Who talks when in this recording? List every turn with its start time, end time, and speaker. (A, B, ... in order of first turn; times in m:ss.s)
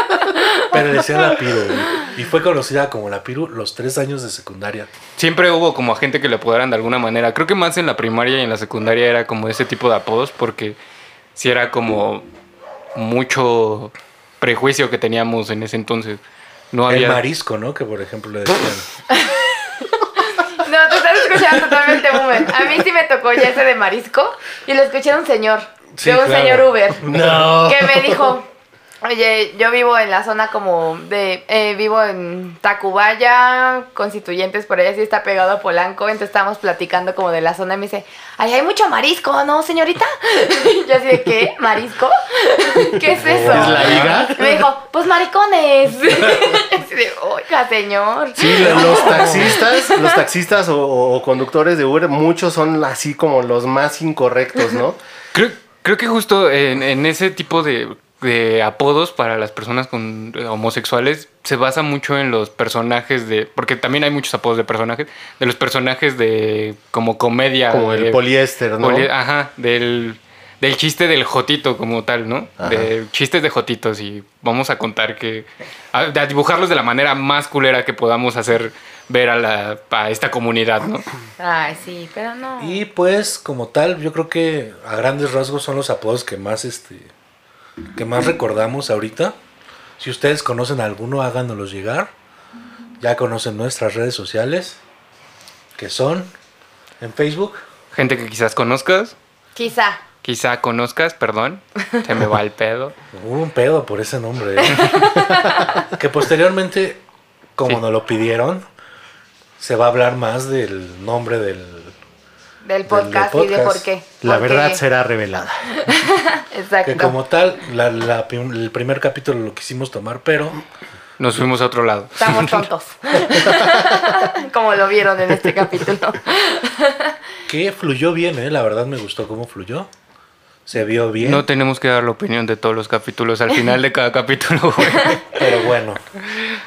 0:00.6-0:04.9 A
0:05.2-0:10.8 B
0:11.4-0:12.3 B
0:13.0-0:16.2 B
0:16.7-0:17.2 B
0:16.9-0:18.9 A
0:20.3-0:28.5 C
0:26.0-0:27.6 A
0:27.1-0:28.4 D
0:29.0-0:50.2 C
0:43.1-0:44.3 A
0:43.1-0:44.6 D
0:48.4-0:55.0 D
0:48.6-0:49.6 A
0:55.3-1:08.2 B
1:07.7-1:09.1 D
1:08.8-1:21.0 B
1:12.6-1:12.9 D
1:21.4-1:22.8 C
1:22.6-1:27.1 A
1:28.0-1:29.4 A
1:30.0-1:32.1 A
1:33.0-1:34.8 A
1:35.8-1:36.3 A
1:37.0-1:37.6 A
1:37.9-1:39.1 B
1:39.6-1:40.0 C
1:40.2-1:43.0 B
1:43.1-1:47.0 A
1:44.6-1:45.8 C
1:47.6-1:48.7 A
1:49.6-1:51.9 A
1:52.6-1:54.8 C
1:52.9-1:53.8 A
1:54.2-1:55.8 D
1:55.9-1:57.2 C
1:56.8-2:00.6 A
2:01.2-2:02.7 B
2:02.2-2:07.1 C
2:07.5-2:09.9 A
2:10.7-2:11.4 A
2:11.2-2:15.2 B
2:15.3-2:16.0 A